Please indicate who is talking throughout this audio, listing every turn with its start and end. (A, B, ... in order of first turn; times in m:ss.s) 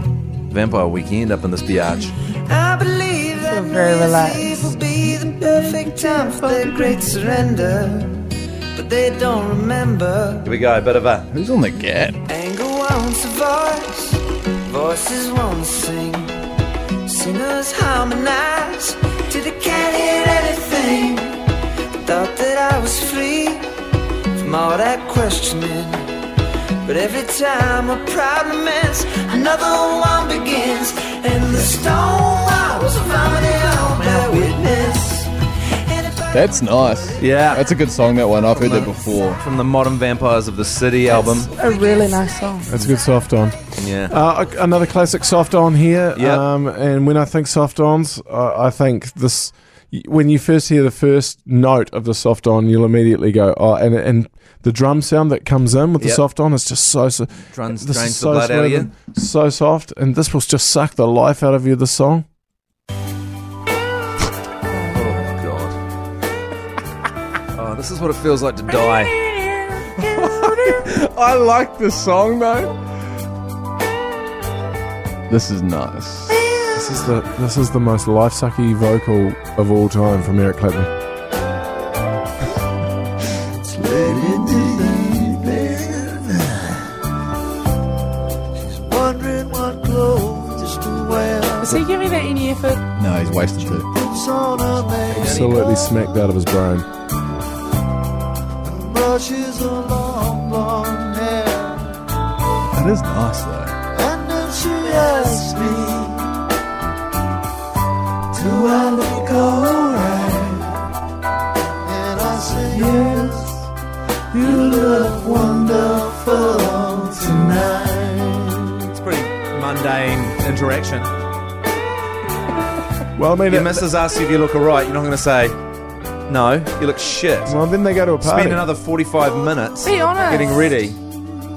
0:00.5-0:02.1 A
0:02.5-0:08.2 B
0:03.4-0:04.7 C
0:08.7-0:10.4 B
0:10.4-0:11.3 A
0:11.3-0:12.2 D
0:12.3-0:16.3 B
0:17.0-0:21.4 B
0:22.0-0:23.6 B
0:24.4-0:26.1 B
0:26.8-0:35.3 B
0:33.9-0:34.8 A
0:35.9-0:36.4 B
0:36.3-0:39.4 D
0:37.2-0:37.6 A
0:38.5-0:41.5 A
0:41.1-0:42.7 C
0:42.7-1:02.2 E
0:43.8-0:44.1 A
0:46.2-0:46.4 A
0:57.5-0:58.9 A
1:04.7-1:05.2 C
1:04.9-1:05.8 A
1:07.5-1:09.2 A
1:08.9-1:10.0 C
1:10.0-1:12.7 D
1:15.3-1:16.5 D
1:16.7-1:20.9 E
1:23.7-1:26.0 B
1:28.9-1:31.8 B
1:31.6-1:32.8 C
1:33.0-1:33.9 D
1:34.0-1:35.9 B
1:35.0-1:35.5 A
1:35.1-1:36.9 E
1:38.7-1:42.0 B
1:42.7-1:43.8 D
1:43.9-1:46.2 B
1:48.3-1:50.9 B
1:51.9-1:53.6 B
1:54.3-1:58.7 B
1:58.9-2:01.1 A
2:03.2-2:03.8 E
2:03.5-2:05.6 A
2:06.3-2:07.6 A
2:07.4-2:08.7 E
2:08.2-2:11.0 A
2:09.8-2:10.7 C